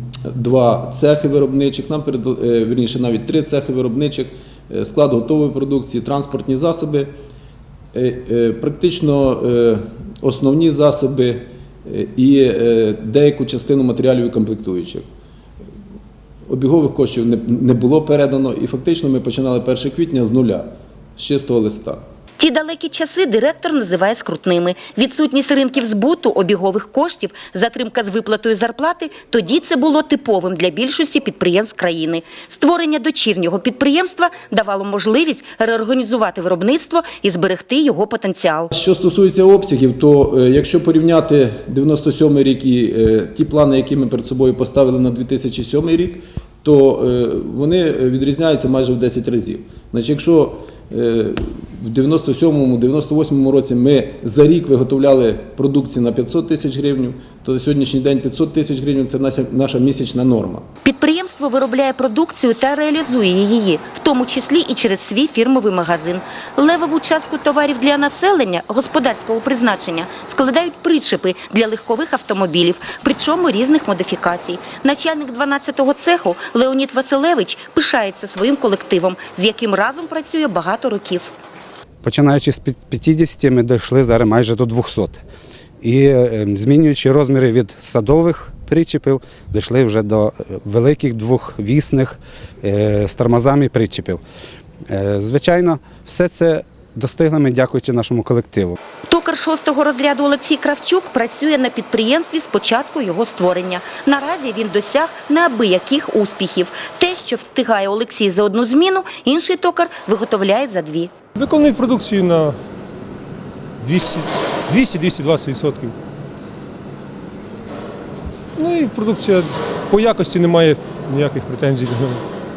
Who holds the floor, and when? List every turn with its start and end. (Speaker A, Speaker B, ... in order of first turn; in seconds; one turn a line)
Speaker A: 0.3-7.1
Speaker A: 7.9-15.0
Speaker A: 16.5-22.0
Speaker B: 22.4-38.7
Speaker A: 38.7-60.6
Speaker B: 60.8-81.3
Speaker C: 82.0-85.2
Speaker C: 85.8-94.2
Speaker C: 94.9-98.8
Speaker B: 99.0-111.1
Speaker D: 111.4-112.5
Speaker D: 113.8-115.9
Speaker D: 118.6-122.2